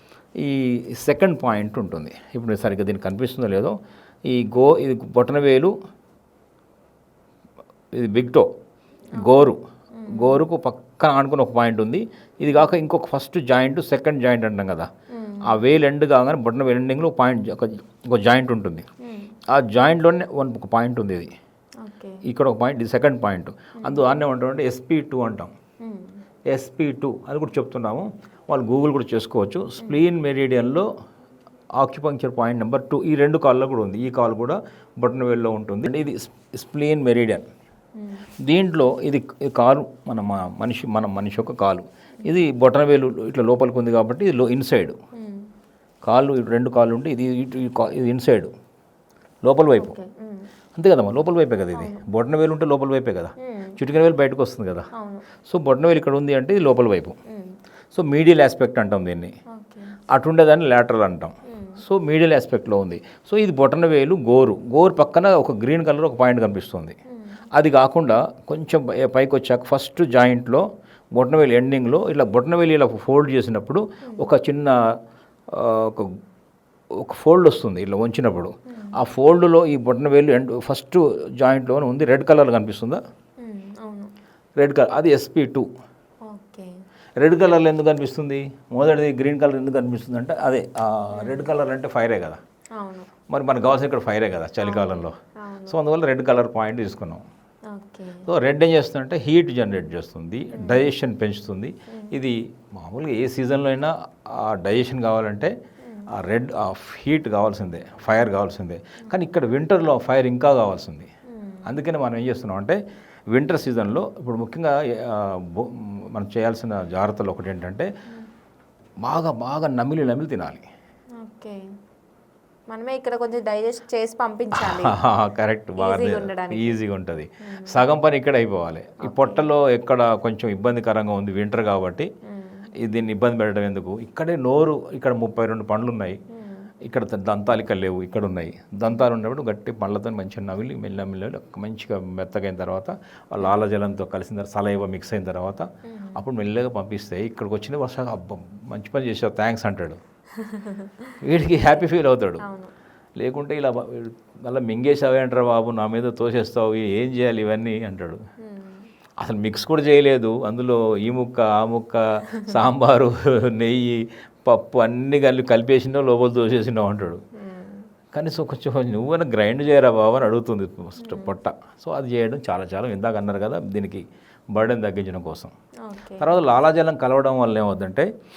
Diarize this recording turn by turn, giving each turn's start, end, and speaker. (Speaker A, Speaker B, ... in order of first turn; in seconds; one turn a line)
Speaker A: 0.4-3.8
Speaker A: 4.3-5.7
Speaker A: 7.9-8.5
Speaker A: 9.2-9.6
Speaker B: 9.2-10.4
Speaker A: 10.1-14.9
Speaker B: 15.1-15.6
Speaker A: 15.4-18.8
Speaker B: 19.0-19.3
Speaker A: 19.5-21.3
Speaker B: 21.8-22.2
Speaker A: 22.2-25.5
Speaker B: 25.8-26.2
Speaker A: 26.5-30.9
Speaker A: 31.8-37.4
Speaker B: 38.0-38.2
Speaker A: 38.4-45.0
Speaker B: 45.1-45.5
Speaker A: 46.0-48.5
Speaker A: 49.4-50.0
Speaker B: 49.8-50.5
Speaker A: 50.8-54.9
Speaker B: 51.7-52.0
Speaker B: 53.4-53.8
Speaker B: 55.0-55.2
Speaker A: 55.4-57.1
Speaker A: 57.9-59.3
Speaker B: 59.5-60.0
Speaker A: 60.1-66.9
Speaker B: 61.5-61.8
Speaker A: 67.5-74.8
Speaker A: 75.5-76.1
Speaker A: 77.0-83.0
Speaker B: 78.7-79.0
Speaker B: 83.4-84.1
Speaker A: 84.6-85.7
Speaker B: 86.2-86.7
Speaker A: 87.2-92.4
Speaker B: 91.2-91.5
Speaker B: 92.8-93.1
Speaker A: 93.3-95.2
Speaker B: 94.6-95.8
Speaker A: 95.7-97.2
Speaker B: 97.7-98.3
Speaker A: 98.2-105.5
Speaker B: 100.6-100.9
Speaker B: 101.9-102.2
Speaker B: 105.8-106.1
Speaker A: 106.1-111.1
Speaker B: 111.3-111.6
Speaker A: 111.6-112.8
Speaker A: 113.3-117.9
Speaker A: 119.0-120.6
Speaker B: 121.2-121.6
Speaker B: 122.7-124.9
Speaker A: 124.6-132.1
Speaker B: 125.8-126.8
Speaker B: 127.5-127.9
Speaker B: 129.0-129.4
Speaker B: 132.3-132.7
Speaker A: 132.8-136.2
Speaker B: 136.3-136.7
Speaker A: 136.8-150.0
Speaker B: 145.9-146.2
Speaker B: 150.3-151.1
Speaker A: 151.2-152.4
Speaker B: 152.4-152.7
Speaker A: 153.2-158.2
Speaker B: 158.4-158.9
Speaker A: 159.2-167.2
Speaker B: 167.4-167.9
Speaker A: 168.1-175.5
Speaker B: 171.0-171.3
Speaker B: 175.8-176.3
Speaker A: 176.2-178.1